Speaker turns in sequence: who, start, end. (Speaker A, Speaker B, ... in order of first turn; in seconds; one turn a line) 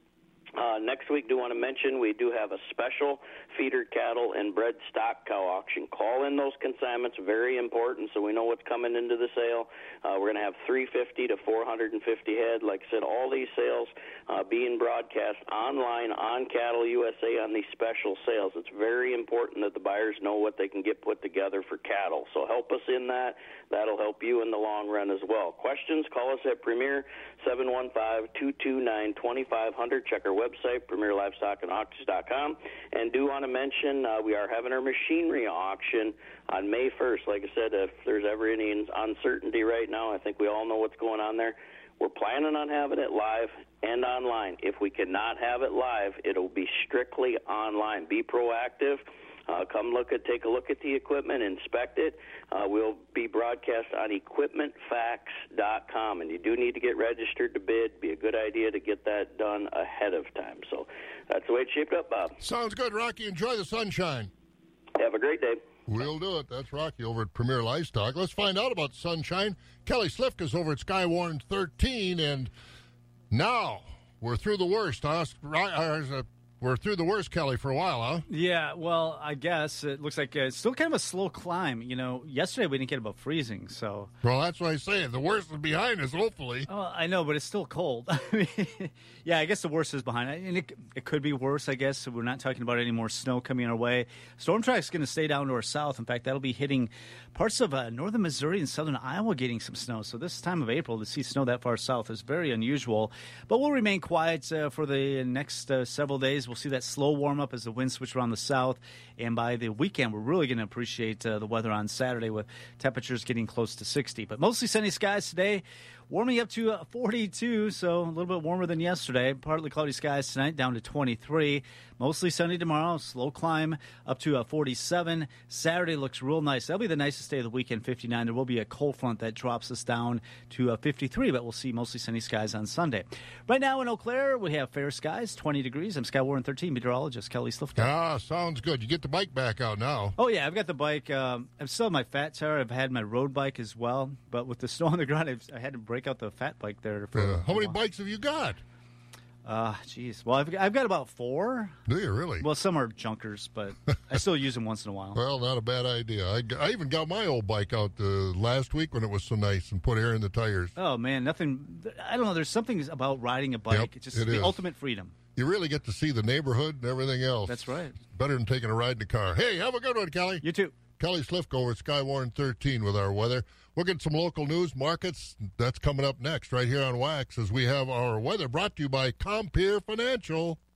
Speaker A: 0.6-62.4
Speaker B: 62.4-64.3
Speaker A: 65.0-65.6
Speaker B: 65.9-72.5
Speaker B: 73.3-78.2
Speaker C: 78.3-84.1
Speaker B: 84.2-86.7
Speaker C: 86.7-137.9
Speaker B: 137.8-140.1
Speaker C: 140.2-147.8
Speaker B: 147.1-148.6
Speaker C: 149.4-151.7
Speaker B: 151.9-152.4
Speaker C: 152.4-155.2
Speaker B: 155.1-160.8
Speaker C: 160.8-165.1
Speaker B: 163.7-164.6
Speaker B: 165.3-170.4
Speaker C: 167.5-168.0
Speaker C: 170.4-170.8
Speaker B: 171.0-180.6